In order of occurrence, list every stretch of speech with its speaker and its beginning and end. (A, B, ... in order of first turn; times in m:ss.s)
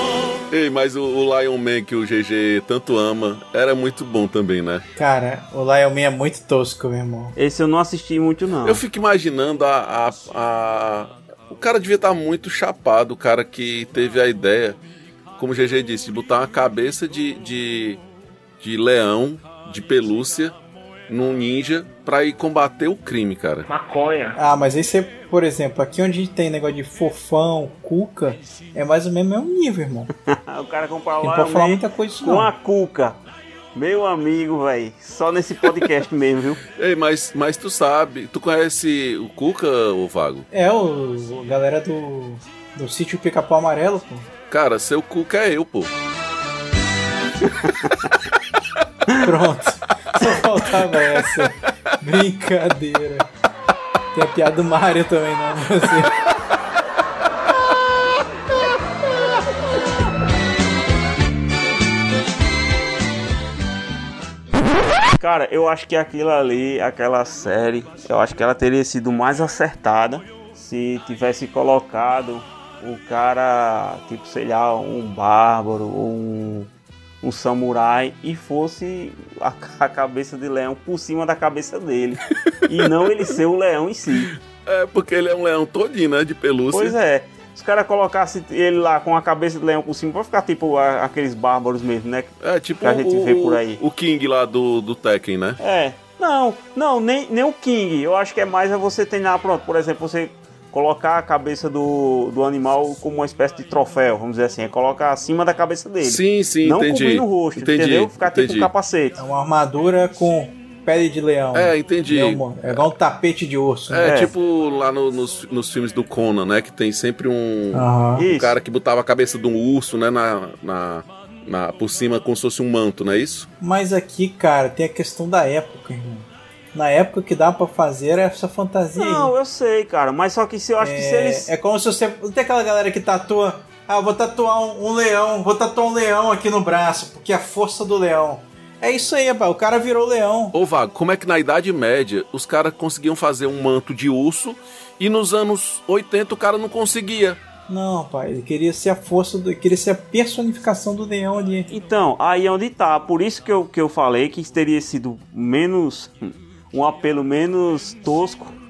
0:00.5-0:04.8 A
0:05.0-0:07.4 B
0:07.4-0:08.8 C
0:08.6-0:14.8 A
0:15.4-0:18.0 A
0:18.6-0:20.5 A
0:21.1-0:23.7 A
0:24.3-0:30.1 B
0:30.3-0:33.2 C
0:31.2-0:32.5 B
0:33.7-0:36.6 C
0:36.8-0:40.5 A
0:40.5-0:44.3 B
0:44.5-0:45.9 A
0:49.2-0:53.3 B
0:54.1-0:56.2 B
1:05.2-1:16.7 C
1:17.2-1:24.3 C
1:24.6-1:26.9 A
1:26.7-1:33.8 C
1:32.4-1:35.6 A
1:35.6-1:49.2 C
1:46.0-1:48.7 A
1:49.2-1:54.3 B
1:51.5-1:52.8 A
1:53.9-2:03.5 A
1:54.0-1:54.3 C
1:57.7-1:58.3 B
1:58.2-1:58.6 C
2:03.6-2:09.3 B
2:09.0-2:11.5 C
2:10.8-2:20.5 B
2:20.5-2:27.4 A
2:27.7-2:31.7 B
2:31.7-2:38.6 C